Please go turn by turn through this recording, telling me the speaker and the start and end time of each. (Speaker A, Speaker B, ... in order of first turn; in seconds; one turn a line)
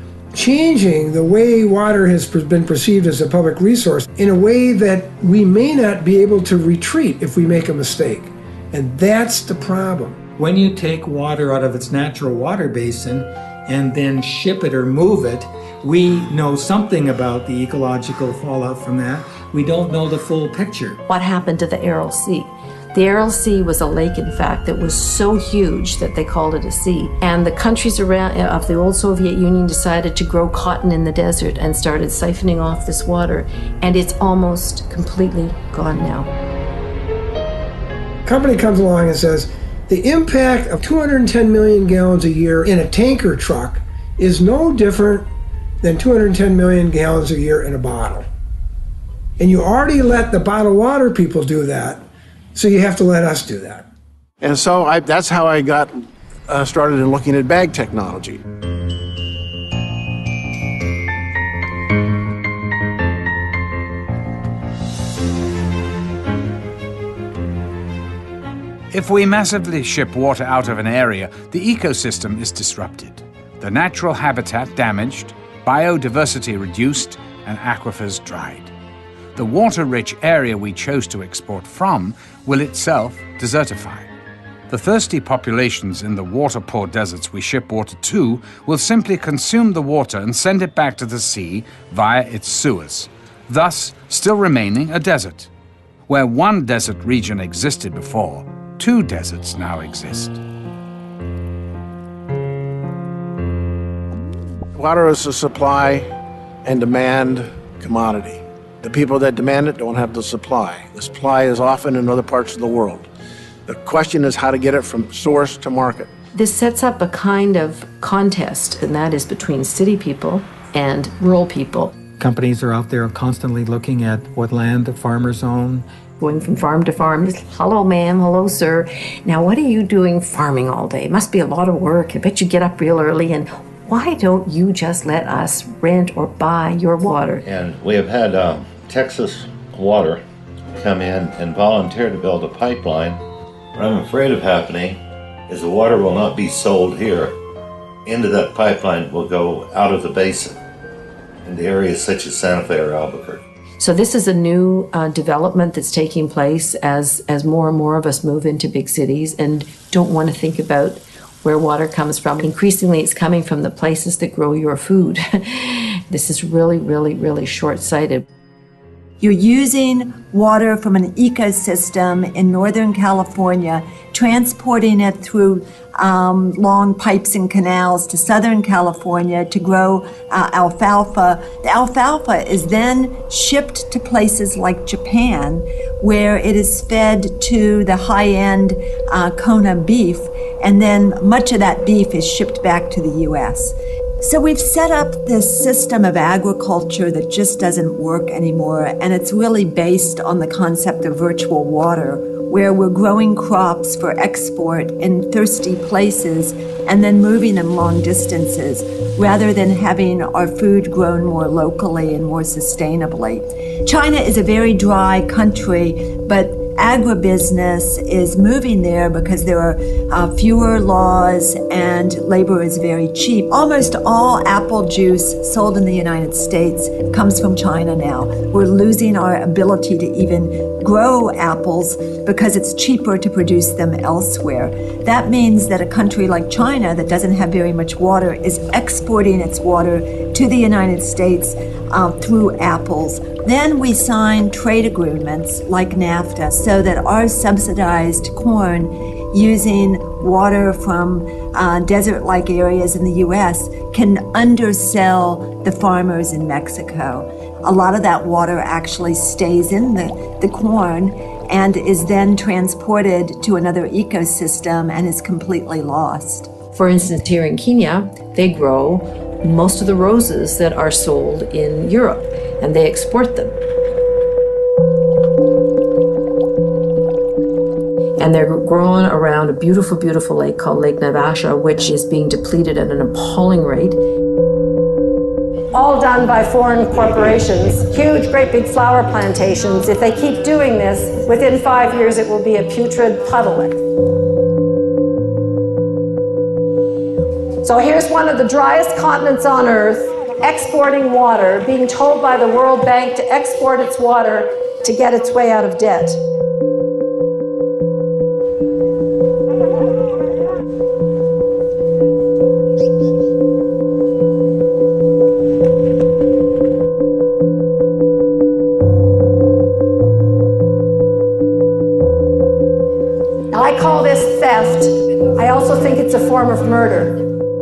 Speaker A: 0.3-10.2
Speaker B: 10.4-21.0
Speaker C: 21.1-36.3
Speaker A: 38.3-45.3
Speaker A: 45.8-48.3
Speaker A: 49.4-52.0
Speaker A: 52.5-53.9
Speaker D: 54.4-58.4
Speaker E: 68.9-78.7
Speaker E: 79.4-84.1
Speaker E: 84.7-95.5
Speaker E: 96.1-100.4
Speaker D: 104.8-106.1
Speaker D: 106.7-113.1
Speaker D: 113.7-116.1
Speaker C: 116.3-122.0
Speaker B: 122.2-125.9
Speaker C: 126.2-137.5
Speaker F: 137.4-140.2
Speaker F: 140.7-143.2
Speaker F: 143.8-147.3
Speaker F: 148.1-150.6
Speaker F: 151.4-153.4
Speaker C: 153.8-168.3
Speaker G: 169.2-266.5
Speaker C: 266.7-273.6
Speaker C: 278.2-284.0
Speaker H: 285.7-293.8
Speaker H: 297.6-306.2
Speaker H: 323.5-327.2